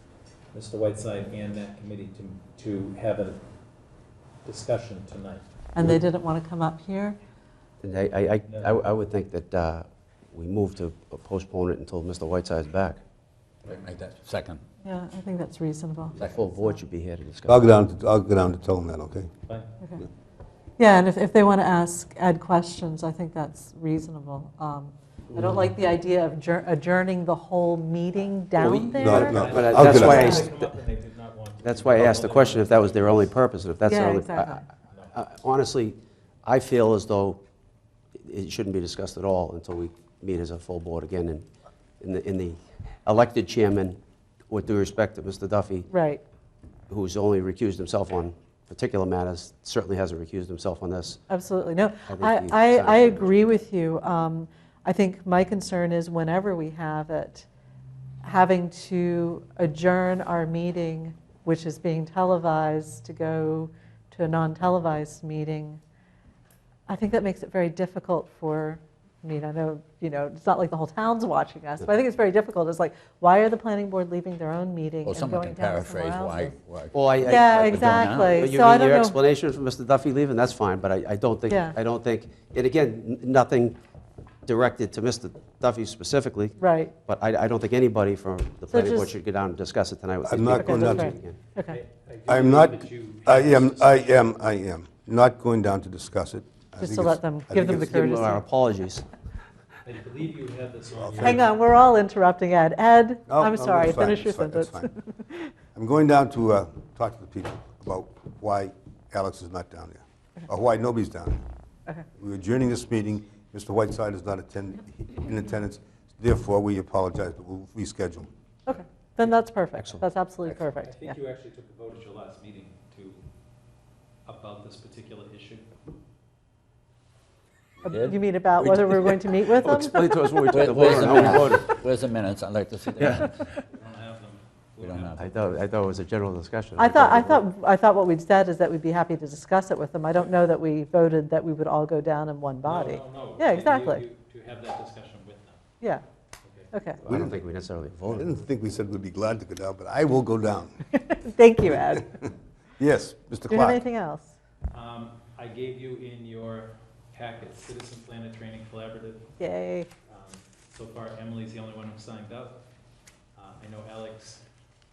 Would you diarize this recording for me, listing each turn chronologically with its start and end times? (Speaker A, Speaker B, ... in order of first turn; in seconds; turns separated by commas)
Speaker A: 0.5-3.4, Speaker A: 4.4-5.4, Speaker B: 5.8-7.2, Speaker C: 7.8-13.0, Speaker A: 8.5-8.8, Speaker D: 13.6-14.6, Speaker B: 14.8-16.8, Speaker C: 16.1-17.7, Speaker D: 16.2-16.4, Speaker E: 17.4-19.3, Speaker B: 20.8-30.4, Speaker C: 25.3-25.7, Speaker C: 28.6-30.7, Speaker E: 29.0-30.4, Speaker A: 29.1-33.4, Speaker C: 31.6-37.4, Speaker B: 33.8-34.6, Speaker C: 38.2-41.5, Speaker C: 42.0-44.0, Speaker C: 44.5-45.9, Speaker B: 45.9-46.2, Speaker C: 46.9-51.2, Speaker B: 51.3-57.5, Speaker C: 52.1-53.4, Speaker B: 58.2-65.8, Speaker B: 66.9-76.6, Speaker D: 75.0-78.5, Speaker C: 76.9-83.8, Speaker B: 77.2-79.2, Speaker B: 81.5-81.8, Speaker C: 84.5-91.4, Speaker B: 86.6-87.0, Speaker B: 88.7-89.1, Speaker E: 90.2-91.1, Speaker B: 90.4-91.8, Speaker A: 91.7-94.2, Speaker E: 92.3-97.9, Speaker B: 96.8-98.4, Speaker C: 97.6-99.0, Speaker A: 99.8-101.5, Speaker E: 101.0-101.5, Speaker B: 101.2-105.5, Speaker E: 103.3-104.9, Speaker E: 105.7-111.5, Speaker E: 112.2-118.3, Speaker B: 118.7-121.2, Speaker C: 119.8-120.0, Speaker A: 120.7-123.2, Speaker A: 124.2-125.7, Speaker D: 127.8-129.2, Speaker B: 127.8-130.5, Speaker C: 129.5-131.7, Speaker D: 130.5-133.5, Speaker C: 133.0-133.2, Speaker A: 133.5-135.2, Speaker D: 134.8-135.3, Speaker C: 135.2-137.5, Speaker B: 136.8-144.0, Speaker A: 142.6-145.6, Speaker A: 146.4-146.7, Speaker B: 146.7-147.0, Speaker C: 147.0-148.4, Speaker E: 147.1-147.4, Speaker E: 148.1-150.8, Speaker B: 150.9-152.2, Speaker E: 152.8-153.8, Speaker B: 153.5-154.3, Speaker A: 154.7-159.3, Speaker B: 159.4-159.9, Speaker A: 160.1-162.6, Speaker A: 163.3-164.4